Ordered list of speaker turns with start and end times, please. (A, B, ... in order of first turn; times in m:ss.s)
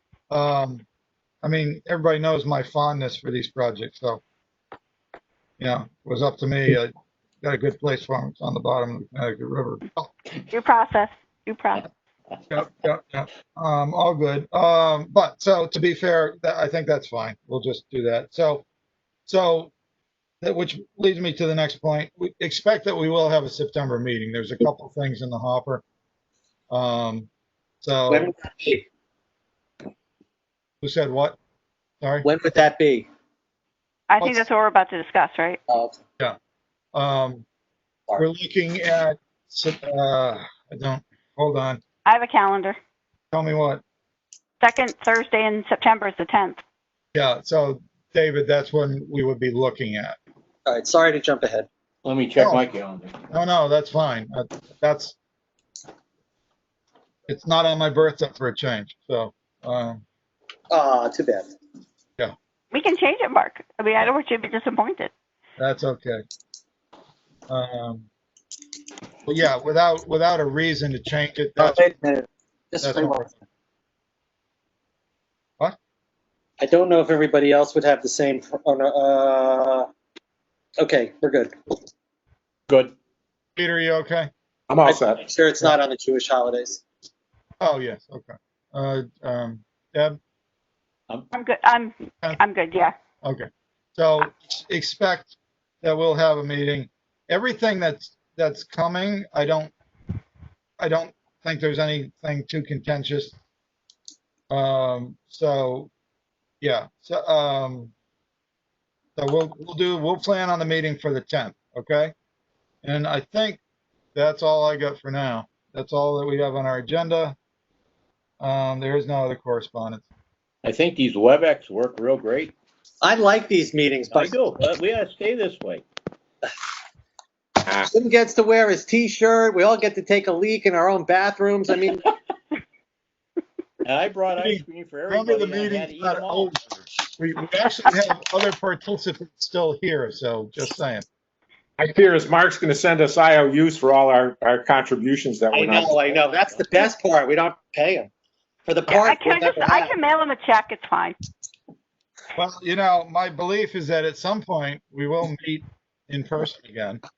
0:00.3-0:00.8 A
0:01.4-0:04.2 A
0:05.6-0:10.1 A
0:10.5-0:11.9 B
0:12.5-0:18.6 A
0:19.3-0:19.7 A
0:20.4-0:25.8 A
0:26.7-0:27.3 A
0:27.8-0:28.3 A
0:28.1-0:28.9 C
0:30.8-0:31.4 A
0:32.0-0:32.3 A
0:32.2-0:33.1 C
0:34.1-0:35.6 B
0:35.7-0:36.0 C
0:36.9-0:37.4 A
0:38.2-0:41.8 A
0:42.1-0:42.8 B
0:43.3-0:43.8 A
0:44.6-0:46.6 B
0:47.2-0:50.2 A
0:50.7-0:51.7 C
0:52.0-0:53.3 D
0:52.4-0:52.7 A
0:53.3-0:55.2 A
0:57.3-1:00.0 A
1:00.7-1:01.5 C
1:02.7-1:05.1 B
1:05.6-1:06.2 A
1:07.5-1:08.1 A
1:09.3-1:11.8 A
1:11.6-1:13.4 C
1:12.8-1:13.3 A
1:16.6-1:19.9 C
1:20.8-1:21.5 C
1:22.7-1:23.0 D
1:23.6-1:24.3 A
1:24.7-1:25.2 E
1:24.8-1:26.8 C
1:27.6-1:30.2 A
1:31.3-1:32.9 B
1:33.2-1:39.7 A
1:40.8-1:43.4 A
1:44.5-1:45.9 A
1:46.6-1:47.9 A
1:49.2-1:52.1 A
1:52.8-1:53.6 A
1:54.2-1:57.4 A
1:58.4-2:00.1 A
2:00.6-2:02.6 D
2:03.0-2:04.4 C
2:04.1-2:05.8 D
2:07.8-2:12.0 C
2:13.8-2:16.8 D
2:14.4-2:16.6 A
2:17.2-2:21.1 A
2:21.8-2:26.1 E
2:25.5-2:28.1 C
2:26.1-2:26.6 D
2:28.7-2:30.0 C
2:28.9-2:31.2 B
2:32.4-2:37.0 A